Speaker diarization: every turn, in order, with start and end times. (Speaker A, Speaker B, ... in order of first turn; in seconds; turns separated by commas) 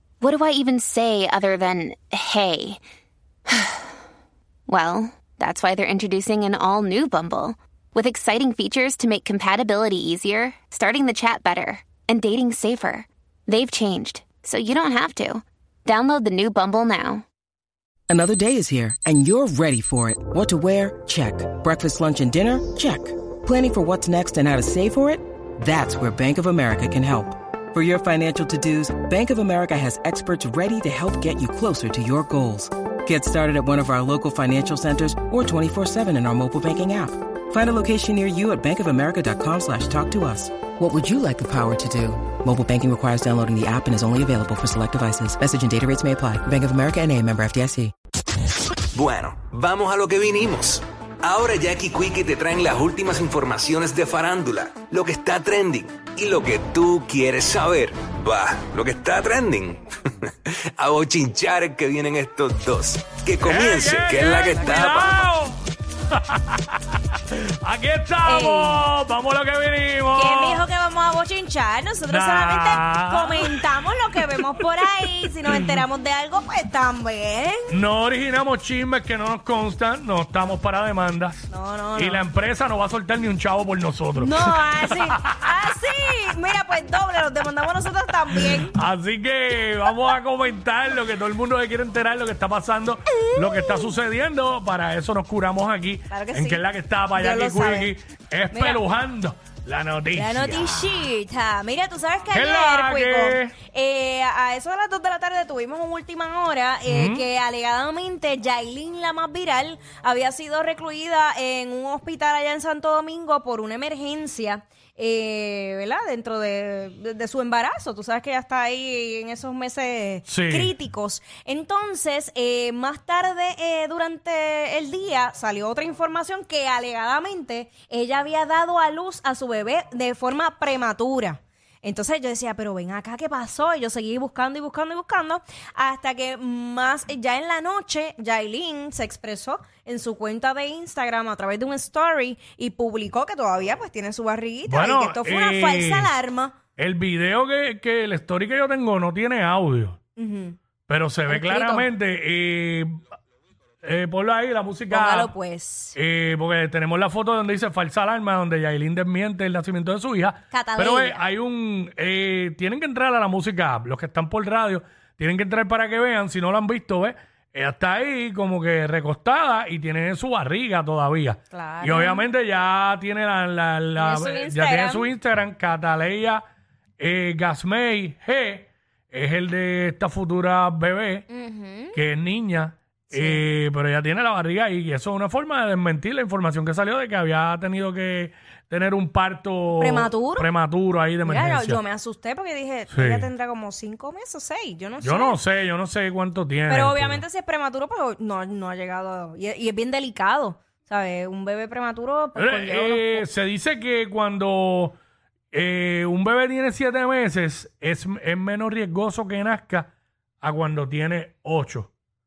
Speaker A: 0.2-2.8, Speaker A: 3.5-3.9, Speaker A: 4.7-17.2, Speaker B: 18.1-47.9, Speaker C: 48.9-65.1, Speaker D: 63.4-65.6, Speaker E: 64.3-64.8, Speaker D: 66.1-66.8, Speaker D: 67.3-70.7, Speaker E: 68.2-68.8, Speaker E: 70.1-77.7, Speaker D: 72.1-75.7, Speaker D: 77.7-81.4, Speaker E: 81.5-82.2, Speaker D: 82.0-85.4, Speaker E: 84.2-88.7, Speaker D: 88.5-100.9, Speaker E: 96.1-96.6, Speaker E: 97.1-97.9, Speaker E: 98.5-98.8, Speaker E: 100.1-146.6, Speaker D: 102.3-103.5, Speaker D: 106.8-107.2, Speaker D: 120.3-120.7, Speaker D: 144.7-146.1, Speaker D: 146.8-150.0, Speaker E: 150.2-150.6, Speaker D: 150.9-153.0, Speaker E: 151.3-151.9, Speaker D: 153.8-155.3, Speaker E: 154.9-155.9, Speaker D: 155.9-176.4, Speaker E: 160.5-161.2, Speaker E: 171.5-172.2, Speaker E: 173.9-175.1, Speaker D: 177.0-181.3, Speaker E: 181.3-182.0, Speaker D: 181.9-191.8, Speaker E: 183.1-183.4, Speaker E: 189.8-190.5, Speaker E: 191.2-195.4, Speaker D: 192.9-193.3, Speaker D: 195.0-197.2, Speaker E: 196.7-203.2, Speaker D: 202.3-205.0, Speaker D: 205.5-209.9, Speaker D: 210.4-211.9